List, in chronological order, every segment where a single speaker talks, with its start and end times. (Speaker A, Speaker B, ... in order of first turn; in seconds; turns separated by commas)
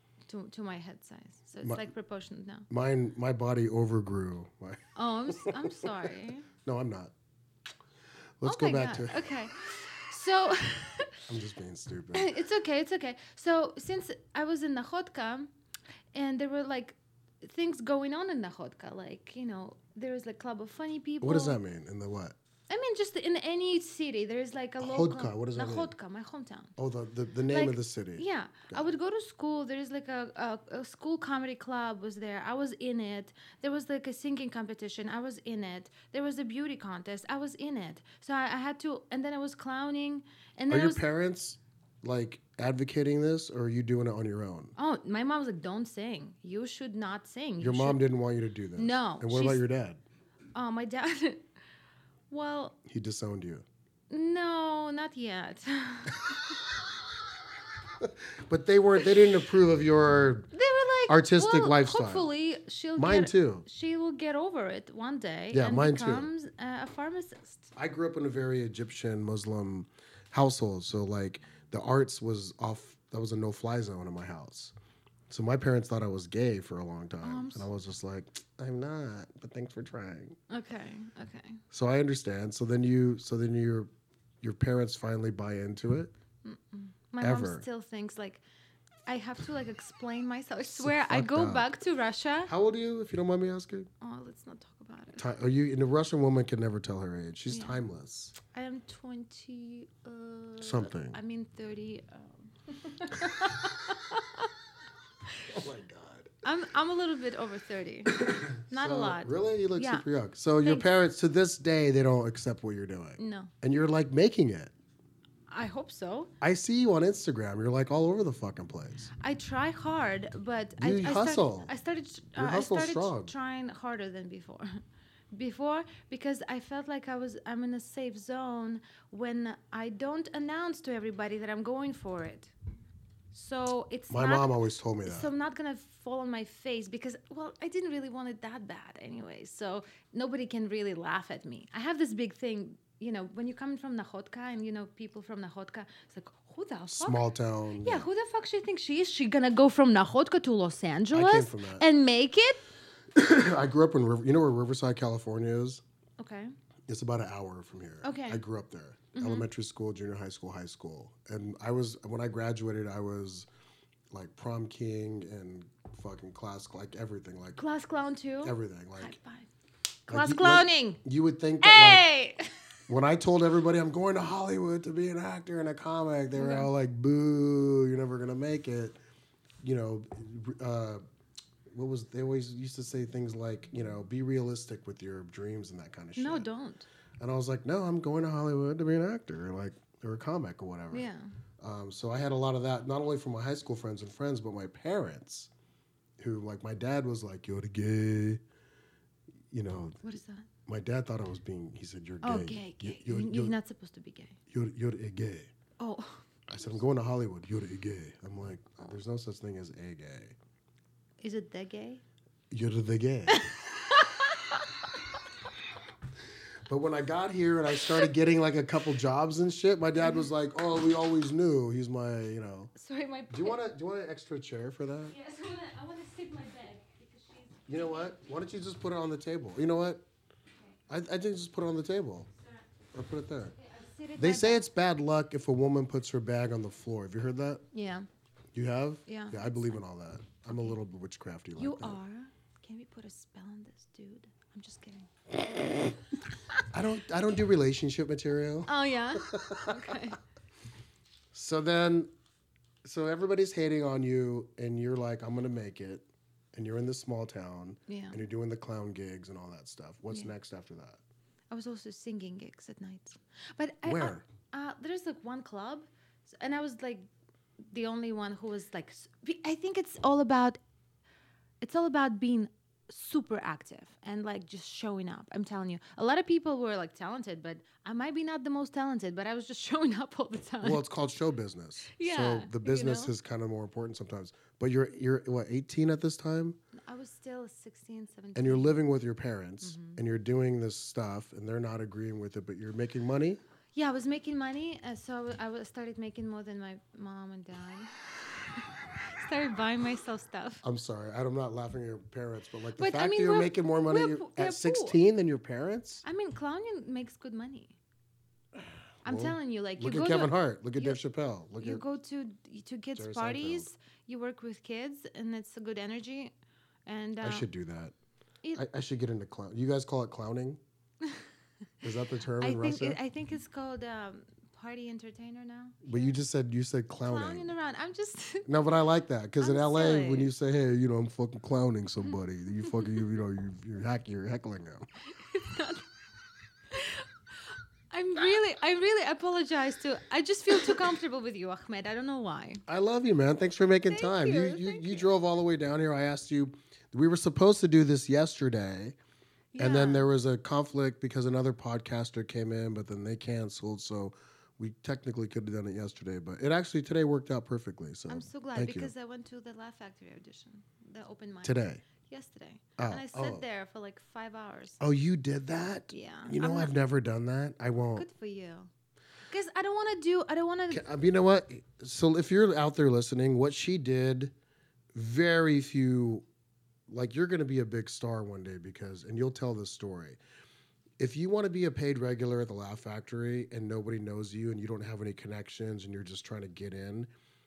Speaker A: 0.3-2.7, Speaker B: 2.7-6.1, Speaker A: 4.9-6.5, Speaker B: 6.6-7.1, Speaker B: 8.4-9.3, Speaker A: 8.4-11.2, Speaker B: 11.3-12.3, Speaker A: 12.1-15.5, Speaker A: 16.1-21.6, Speaker B: 21.2-22.4, Speaker A: 22.7-26.7, Speaker B: 24.8-25.9, Speaker B: 26.8-28.9, Speaker A: 27.5-41.0, Speaker B: 40.7-44.7, Speaker A: 44.8-48.0, Speaker B: 47.6-50.0, Speaker A: 48.8-49.6, Speaker A: 50.5-51.4, Speaker A: 52.3-52.8, Speaker B: 52.9-53.6, Speaker A: 54.1-56.6, Speaker B: 58.0-60.5, Speaker A: 60.5-67.7, Speaker B: 61.1-62.3, Speaker B: 63.0-63.7, Speaker B: 65.5-66.3, Speaker B: 67.8-74.7, Speaker B: 75.3-80.4, Speaker A: 77.2-77.7, Speaker A: 80.5-81.6, Speaker B: 81.7-83.9, Speaker B: 84.4-86.1, Speaker A: 86.4-88.4, Speaker B: 87.2-87.7, Speaker A: 89.1-92.5, Speaker B: 90.7-91.7, Speaker B: 92.5-93.9, Speaker A: 94.0-95.2, Speaker B: 95.2-98.3, Speaker A: 97.5-97.8, Speaker A: 98.5-104.5, Speaker B: 100.6-101.2, Speaker B: 105.5-106.3, Speaker A: 106.4-110.0, Speaker B: 108.1-114.7, Speaker A: 110.6-110.9, Speaker A: 113.2-113.5, Speaker A: 115.5-116.3, Speaker B: 116.4-119.1, Speaker A: 119.2-124.8, Speaker B: 120.8-121.7, Speaker B: 122.3-123.3, Speaker A: 125.3-132.5, Speaker A: 133.3-134.5, Speaker B: 134.1-135.3, Speaker A: 135.1-147.2, Speaker B: 146.9-148.1, Speaker A: 147.8-152.6, Speaker B: 151.1-151.8, Speaker B: 153.1-155.8, Speaker A: 156.2-156.5, Speaker B: 156.9-163.5, Speaker A: 158.0-158.4, Speaker A: 159.2-159.4, Speaker B: 164.1-167.6, Speaker A: 167.6-169.5, Speaker B: 168.4-169.2, Speaker A: 170.1-171.0, Speaker B: 170.1-172.1, Speaker A: 171.6-172.5, Speaker B: 172.9-179.0, Speaker A: 176.3-176.7, Speaker B: 179.6-181.0, Speaker B: 181.7-186.5, Speaker A: 186.2-186.8, Speaker B: 187.2-191.1, Speaker A: 190.9-191.3, Speaker B: 191.6-195.5, Speaker B: 196.2-198.4, Speaker B: 199.5-200.0, Speaker A: 200.0-200.5, Speaker B: 200.7-203.6, Speaker A: 202.2-204.4, Speaker B: 204.5-205.5, Speaker A: 205.8-206.3, Speaker B: 206.5-210.3, Speaker A: 211.2-212.0, Speaker B: 212.5-213.4, Speaker A: 213.3-214.7, Speaker B: 216.7-222.7, Speaker A: 222.7-223.6, Speaker B: 223.3-225.2, Speaker A: 225.1-228.1, Speaker B: 227.7-230.1, Speaker B: 230.9-232.3, Speaker B: 232.9-233.6, Speaker A: 233.6-234.7, Speaker B: 234.2-237.7, Speaker A: 237.7-238.1, Speaker B: 238.5-242.0, Speaker A: 239.1-239.4, Speaker A: 241.6-245.1, Speaker B: 246.7-250.0, Speaker A: 248.7-250.2, Speaker B: 251.3-252.1, Speaker B: 252.8-261.0, Speaker A: 257.9-258.2, Speaker A: 261.5-267.1, Speaker B: 263.8-264.2, Speaker A: 267.7-270.6, Speaker A: 271.6-280.8, Speaker B: 280.6-286.6, Speaker A: 281.9-283.1, Speaker A: 286.8-288.8, Speaker B: 288.3-293.4, Speaker A: 289.6-290.0, Speaker A: 293.7-300.6, Speaker B: 300.6-306.0, Speaker A: 302.8-305.0, Speaker A: 306.0-307.8, Speaker B: 308.6-311.8, Speaker A: 309.1-311.0, Speaker A: 311.6-316.3, Speaker B: 312.9-313.7, Speaker A: 316.9-317.5, Speaker B: 317.2-317.9, Speaker B: 318.5-320.6, Speaker B: 321.8-323.0, Speaker A: 322.4-326.2, Speaker B: 325.8-327.6, Speaker A: 327.0-328.5, Speaker B: 328.4-334.9, Speaker A: 329.4-330.3, Speaker A: 335.0-335.9, Speaker A: 336.7-337.1, Speaker A: 337.9-342.6, Speaker B: 342.7-349.0, Speaker A: 343.9-345.1, Speaker A: 349.5-350.1, Speaker B: 349.6-358.9, Speaker A: 358.1-364.8, Speaker B: 361.4-361.8, Speaker B: 362.8-363.4, Speaker B: 364.8-368.1, Speaker A: 365.9-366.7, Speaker A: 367.9-368.7, Speaker A: 369.3-370.8, Speaker B: 370.7-374.3, Speaker B: 374.9-376.2, Speaker B: 376.9-380.2, Speaker B: 381.0-387.1